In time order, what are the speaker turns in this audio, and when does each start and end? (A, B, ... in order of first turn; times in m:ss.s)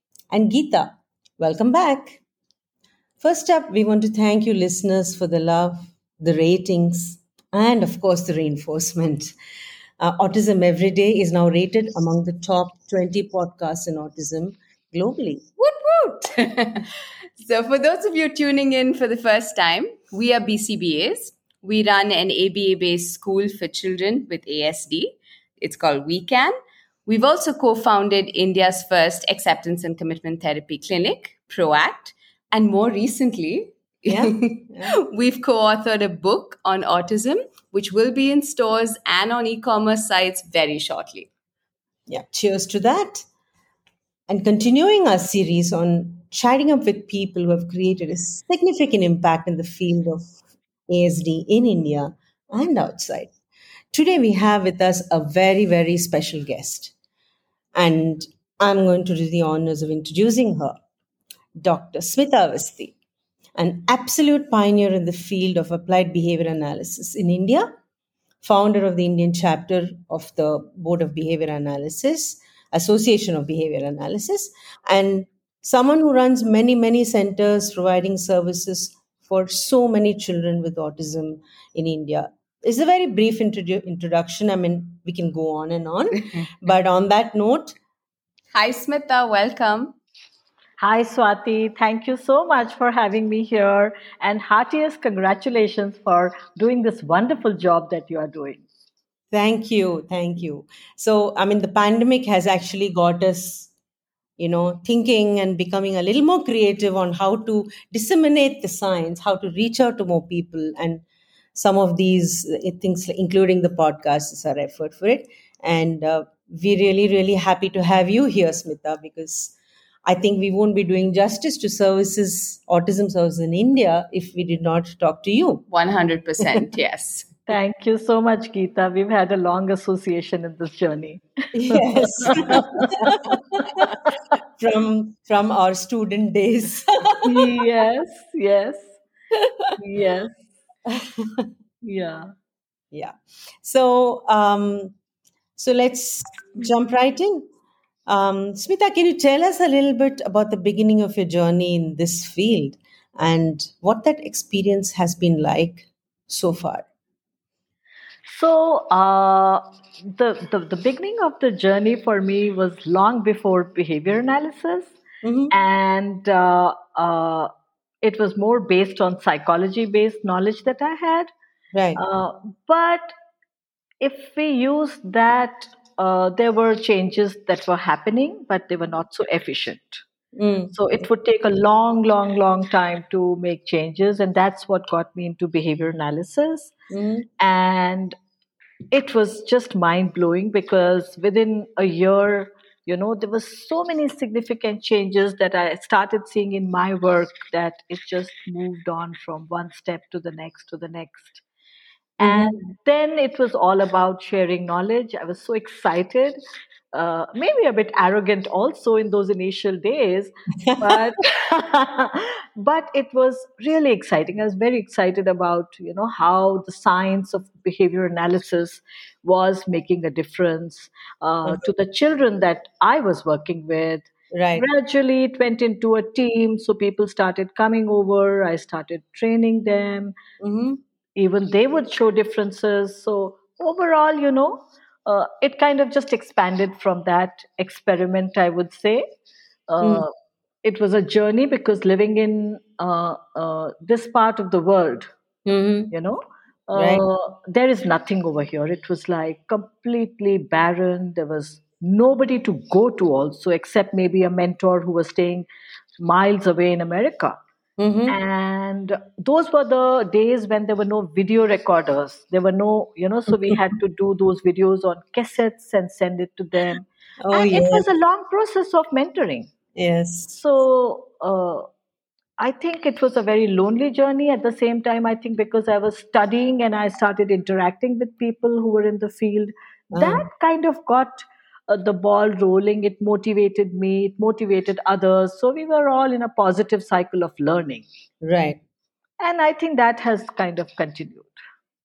0:00.3-0:02.2 A
0:03.2-0:09.3 A
0:10.0-0:15.4 A
0:15.6-0:26.5 B
0:27.1-0:41.3 B
0:34.1-0:35.0 A
0:42.1-0:43.3 A
0:44.3-0:50.4 A
0:50.9-0:53.3 A
0:53.9-0:56.9 A
0:57.8-1:00.8 A
1:01.6-1:03.0 A
1:03.6-1:07.7 A
1:08.4-1:27.8 A
1:28.5-1:30.0 B
1:30.8-1:38.7 C
1:39.3-1:43.7 A
1:44.4-1:51.0 A
1:51.6-1:59.6 A
2:00.1-2:05.6 A
2:05.7-2:07.4 B
2:07.5-2:13.2 C
2:11.5-2:13.6 A
2:14.6-2:17.5 A
2:17.2-2:19.0 C
2:19.8-2:20.3 C
2:21.8-2:22.3 C
2:22.9-2:25.0 A
2:25.6-2:27.4 A
2:28.1-2:36.8 A
2:38.3-2:45.0 C
2:45.2-2:45.5 A
2:45.5-2:47.5 C
2:48.0-2:51.3 C
2:51.7-2:52.0 A
2:52.0-2:53.1 C
2:54.0-3:00.0 C
3:00.4-3:00.8 A
3:00.7-3:06.7 C
3:06.9-3:07.3 A
3:07.4-3:08.1 C
3:08.9-3:21.4 C
3:22.2-3:26.4 C
3:22.2-3:22.6 A
3:26.9-3:50.1 C
3:30.7-3:31.1 A
3:44.3-3:44.7 A
3:50.4-3:50.8 A
3:51.2-3:59.0 C
3:59.7-4:00.1 C
3:59.8-4:00.1 A
4:00.6-4:05.1 C
4:05.5-4:05.9 A
4:05.9-4:15.5 C
4:06.8-4:07.1 A
4:16.0-4:17.4 C
4:17.8-4:18.2 A
4:18.1-4:29.5 C
4:27.2-4:27.9 A
4:29.8-4:30.4 A
4:30.3-4:31.6 C
4:32.4-4:47.9 C
4:39.9-4:40.3 A
4:48.2-4:48.6 A
4:49.2-4:51.4 C